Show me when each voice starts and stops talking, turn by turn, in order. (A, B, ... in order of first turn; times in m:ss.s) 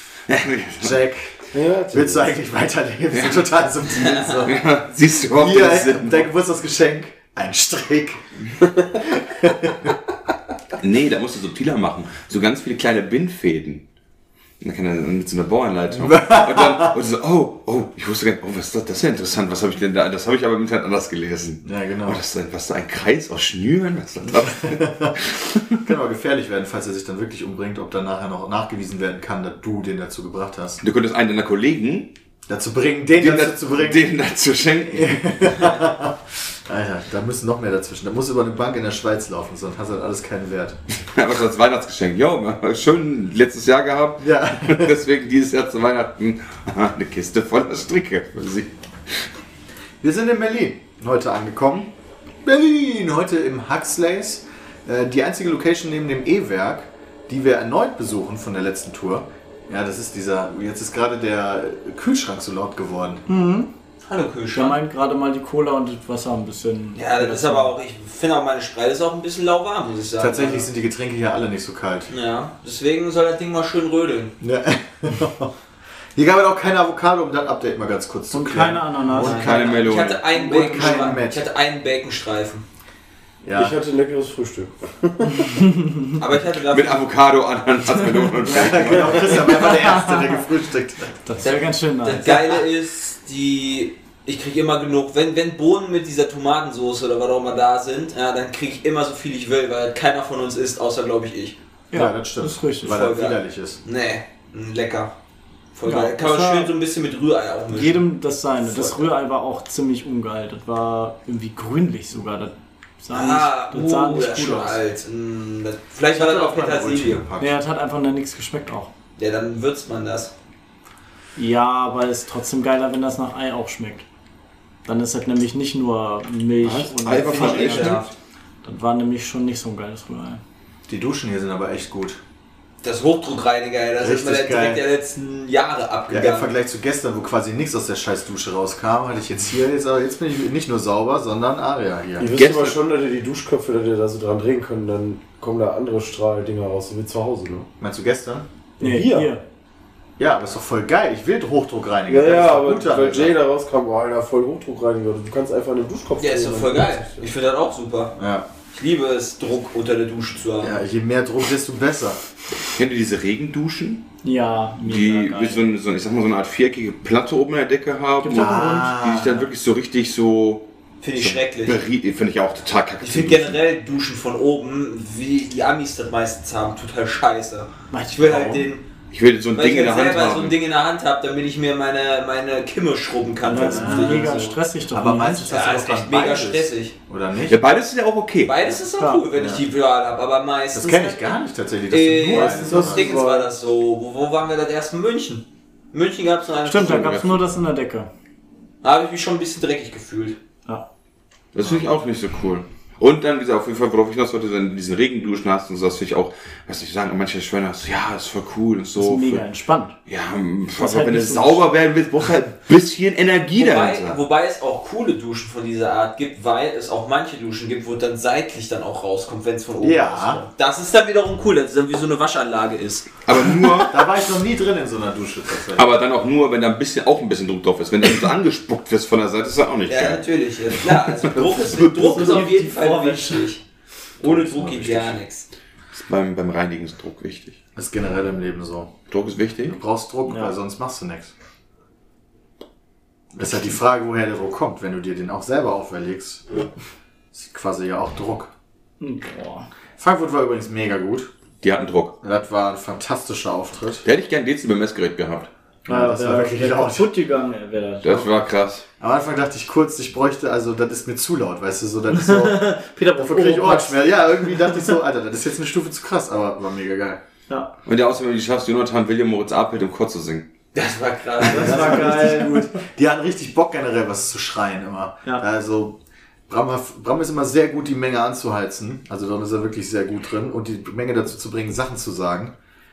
0:00.3-0:00.9 A
0:00.8-0:01.4 B
0:01.5-0:02.3 C
0:01.9-0:04.6 B
0:03.1-0:03.4 A
0:04.4-0:06.3 A
0:05.3-0:08.2 B
0:09.0-0:09.9 B
0:10.8-0:13.8 A
0:14.6-0:25.8 A
0:16.0-0:17.0 B
0:21.6-0:22.2 B
0:24.6-0:25.1 B
0:25.8-0:30.8 B
0:30.8-0:32.1 A
0:32.5-0:34.0 B
0:33.2-0:35.2 A
0:34.9-0:40.8 B
0:41.1-0:48.7 A
0:44.2-0:45.0 B
0:50.0-0:51.9 B
0:52.4-1:03.2 B
1:03.3-1:03.7 D
1:04.0-1:04.8 E
1:04.5-1:07.7 D
1:06.9-1:10.7 E
1:10.2-1:12.1 B
1:12.1-1:14.4 E
1:14.4-1:15.5 B
1:16.1-1:19.8 B
1:18.3-1:19.4 D
1:19.2-1:20.2 A
1:19.2-1:22.6 E
1:20.3-1:21.2 D
1:20.4-1:21.4 B
1:23.4-1:23.8 B
1:23.5-1:25.6 C
1:25.4-1:26.1 D
1:26.2-1:27.1 E
1:26.7-1:29.3 A
1:28.4-1:31.2 B
1:28.9-1:30.4 D
1:31.2-1:32.6 D
1:31.4-1:41.6 E
1:41.9-1:42.9 D
1:41.9-1:43.8 B
1:42.8-1:45.1 E
1:45.7-1:48.1 E
1:45.8-1:46.7 D
1:47.7-1:54.8 D
1:48.6-1:49.1 E
1:53.1-1:57.3 E
1:56.1-1:57.6 B
1:57.4-1:58.9 D
1:59.2-2:00.3 E
2:01.4-2:04.0 D
2:04.8-2:08.0 D
2:06.6-2:08.1 A
2:07.2-2:08.1 E
2:08.6-2:10.4 D
2:10.9-2:12.2 B
2:12.8-2:16.5 E
2:14.0-2:14.8 B
2:16.1-2:22.3 B
2:22.2-2:27.7 C
2:22.4-2:22.8 A
2:27.8-2:28.5 B
2:28.8-2:29.3 C
2:28.8-2:29.4 D
2:30.2-2:33.4 B
2:32.1-2:37.2 C
2:36.2-2:38.1 E
2:38.2-2:38.5 B
2:38.7-2:40.8 E
2:40.6-2:42.2 B
2:42.7-2:44.0 A
2:44.2-2:45.6 D
2:44.8-2:53.6 A
2:48.2-2:49.0 D
2:48.3-2:49.5 B
2:51.0-2:51.8 E
2:53.0-2:58.9 E
2:57.9-2:58.7 D
2:59.1-3:00.6 A
2:59.5-3:04.6 E
3:03.4-3:05.5 D
3:03.5-3:07.6 B
3:05.5-3:06.9 E
3:07.5-3:08.6 A
3:08.4-3:11.4 E
3:09.3-3:09.6 B
3:10.7-3:13.2 B
3:11.9-3:17.3 E
3:12.3-3:13.5 C
3:16.6-3:18.1 D
3:16.7-3:17.4 A
3:18.8-3:20.4 E
3:21.5-3:29.4 A
3:29.0-3:30.0 D
3:30.1-3:34.2 A
3:30.8-3:31.7 D
3:33.6-3:43.2 E
3:39.8-3:40.4 B
3:43.2-3:44.1 A
3:43.9-3:46.0 B
3:45.7-3:50.2 A
3:49.9-3:53.6 E
3:50.8-3:52.4 A
3:52.0-3:53.5 D
3:54.2-3:55.5 E
3:54.2-3:55.0 B
3:54.6-3:55.1 A
3:55.9-3:57.6 A
3:57.8-3:59.0 B
3:59.1-3:59.8 A
3:59.6-4:01.3 B
4:00.2-4:00.5 D
4:03.3-4:06.6 B
4:07.3-4:08.5 B
4:09.0-4:09.7 D
4:10.0-4:11.3 B
4:11.6-4:12.1 A
4:12.2-4:14.0 B
4:14.0-4:15.5 A
4:15.8-4:18.4 D
4:15.8-4:17.1 B
4:18.0-4:18.8 A
4:19.0-4:27.2 B
4:22.1-4:24.9 D
4:27.8-4:30.5 A
4:30.7-4:32.2 E
4:31.4-4:42.6 B
4:31.5-4:32.7 D